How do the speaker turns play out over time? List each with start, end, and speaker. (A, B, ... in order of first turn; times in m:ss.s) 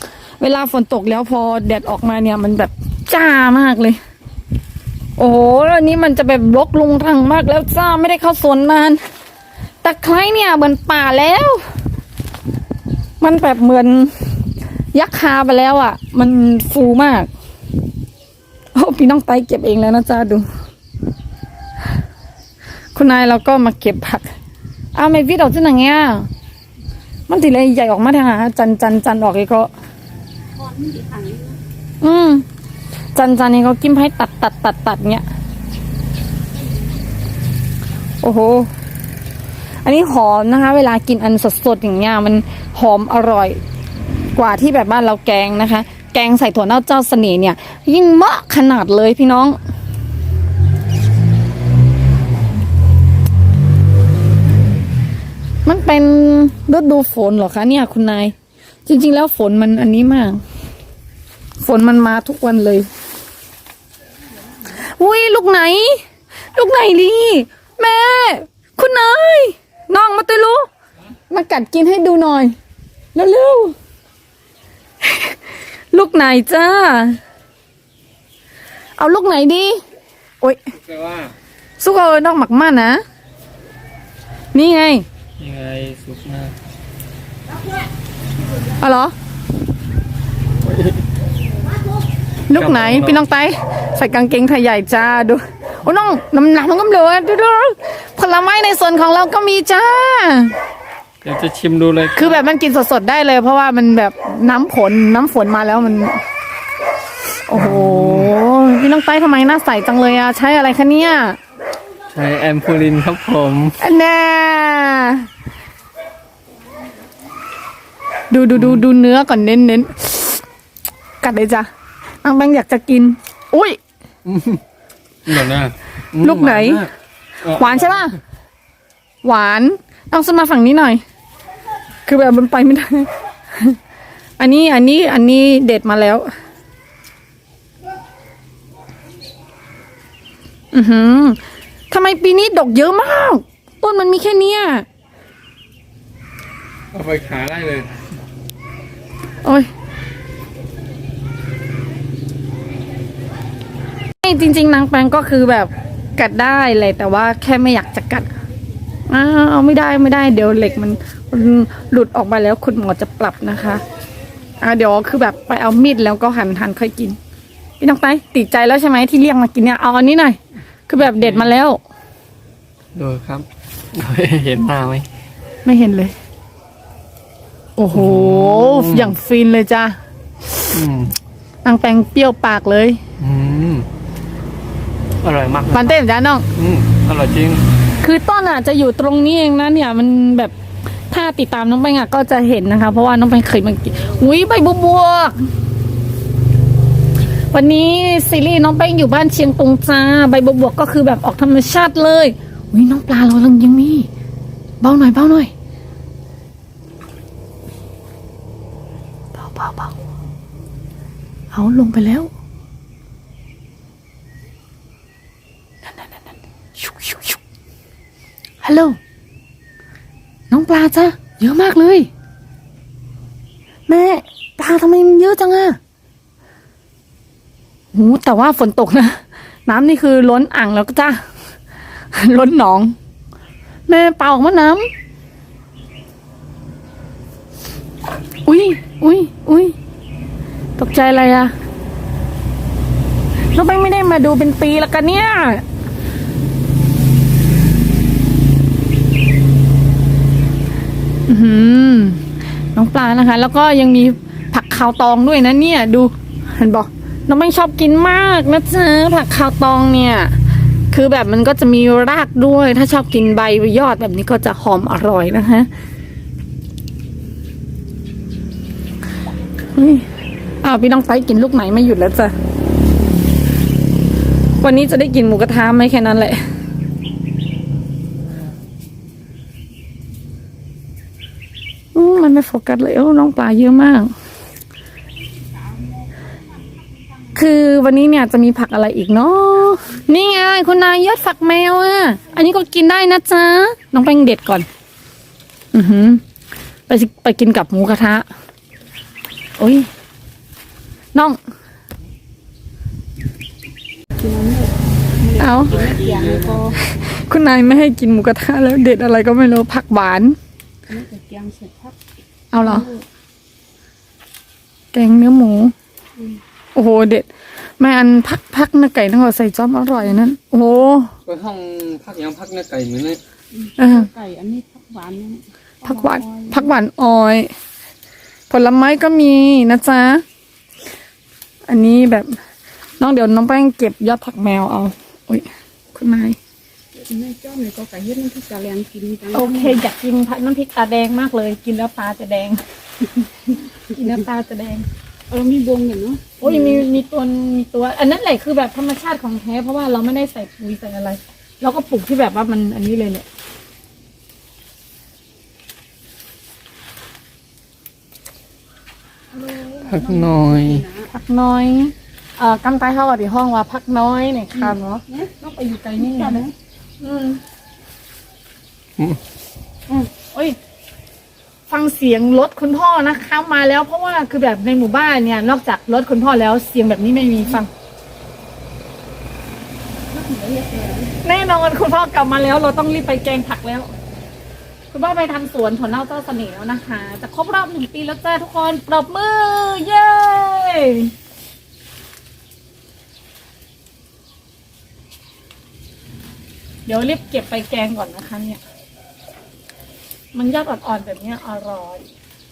0:00.4-0:04.0 A
0:05.2-0:09.0 A
0:09.8-0:11.6 A
0:13.2-0:14.3 A
0:14.9-0:17.3 A
0:18.7-0:20.4 A
0:22.9-0:24.3 A
0:24.9-0:26.3 A
0:27.3-0:29.7 A
0:30.5-0:31.6 B
0:32.0-0:32.4 A
0:33.1-0:35.2 A
0:38.2-0:38.7 A
0:39.8-0:43.6 A
0:44.3-0:49.6 A
0:55.6-0:58.3 A
0:58.8-1:00.4 A
1:01.6-1:02.8 A
1:04.7-1:06.0 A
1:06.5-1:10.7 A
1:11.3-1:12.5 A
1:13.1-1:13.7 A
1:15.0-1:15.3 A
1:15.9-1:17.2 A
1:19.0-1:19.8 A
1:20.8-1:21.3 C
1:21.8-1:23.0 A
1:24.5-1:25.0 A
1:25.4-1:26.5 C
1:28.8-1:29.1 A
1:30.6-1:31.0 C
1:32.5-1:40.6 A
1:32.5-1:33.2 C
1:41.2-1:42.4 C
1:42.1-1:46.2 A
1:47.5-1:51.4 A
1:47.6-1:48.3 C
1:52.1-1:53.8 C
1:53.8-1:55.3 A
1:58.3-2:00.4 A
2:01.2-2:01.7 A
2:02.2-2:03.8 A
2:04.2-2:04.6 C
2:05.2-2:06.9 C
2:06.2-2:06.8 A
2:07.4-2:08.0 C
2:07.5-2:08.2 A
2:09.2-2:11.0 A
2:12.0-2:13.8 A
2:14.4-2:16.3 A
2:20.7-2:21.4 A
2:21.9-2:24.8 A
2:26.9-2:27.9 C
2:34.2-2:38.3 A
2:39.1-2:43.8 A
2:44.6-2:47.2 A
2:47.8-2:51.8 A
2:51.0-2:51.5 C
2:53.0-2:55.1 C
2:55.6-2:56.1 A
2:57.8-3:00.0 A
2:57.9-2:59.2 C
3:00.7-3:01.1 C
3:01.6-3:03.0 A
3:03.2-3:03.9 C
3:05.2-3:06.0 C
3:05.7-3:06.4 A
3:06.6-3:07.6 C
3:08.0-3:10.5 A
3:11.1-3:15.4 A
3:17.5-3:24.1 A
3:24.8-3:25.5 A
3:29.3-3:29.9 A
3:31.5-3:32.3 A
3:35.8-3:37.4 A
3:38.6-3:39.0 A
3:40.5-3:42.1 A
3:43.9-3:45.8 A
3:47.9-3:51.2 A
3:52.1-3:52.9 A
3:53.9-3:54.9 A
3:58.4-3:59.7 A
4:00.8-4:01.5 A
4:03.5-4:05.6 A
4:11.3-4:12.2 A
4:12.7-4:20.3 A
4:20.9-4:25.7 A
4:29.7-4:30.0 A
4:30.6-4:32.3 A
4:34.6-4:36.4 A
4:41.9-4:44.1 A
4:47.3-4:54.7 A
4:55.7-4:56.2 A
4:56.9-4:58.3 A
4:59.6-4:59.9 A
5:04.2-5:06.8 B
5:05.4-5:05.8 A
5:05.8-5:06.6 C
5:06.8-5:10.4 A
5:10.9-5:12.0 B
5:12.5-5:12.9 A
5:12.6-5:13.0 B
5:14.9-5:15.7 A
5:16.7-5:17.3 A
5:17.8-5:21.1 A
5:21.3-5:23.2 C
5:23.5-5:26.7 B
5:23.8-5:24.1 A
5:25.8-5:27.5 A
5:28.5-5:30.2 A
5:31.7-5:32.3 A
5:33.0-5:36.4 A
5:37.0-5:39.8 B
5:39.3-5:42.6 A
5:43.5-5:44.8 A
5:45.3-5:46.8 B
5:46.4-5:53.2 A
5:59.3-6:01.1 B
5:59.8-6:00.8 C
6:01.1-6:06.5 A
6:04.6-6:05.3 B
6:06.0-6:06.5 B
6:07.0-6:07.4 A
6:09.9-6:10.6 B
6:11.7-6:17.7 A
6:20.1-6:21.1 B
6:21.2-6:23.9 A
6:24.9-6:31.1 A
6:36.8-6:38.6 A
6:40.3-6:42.0 A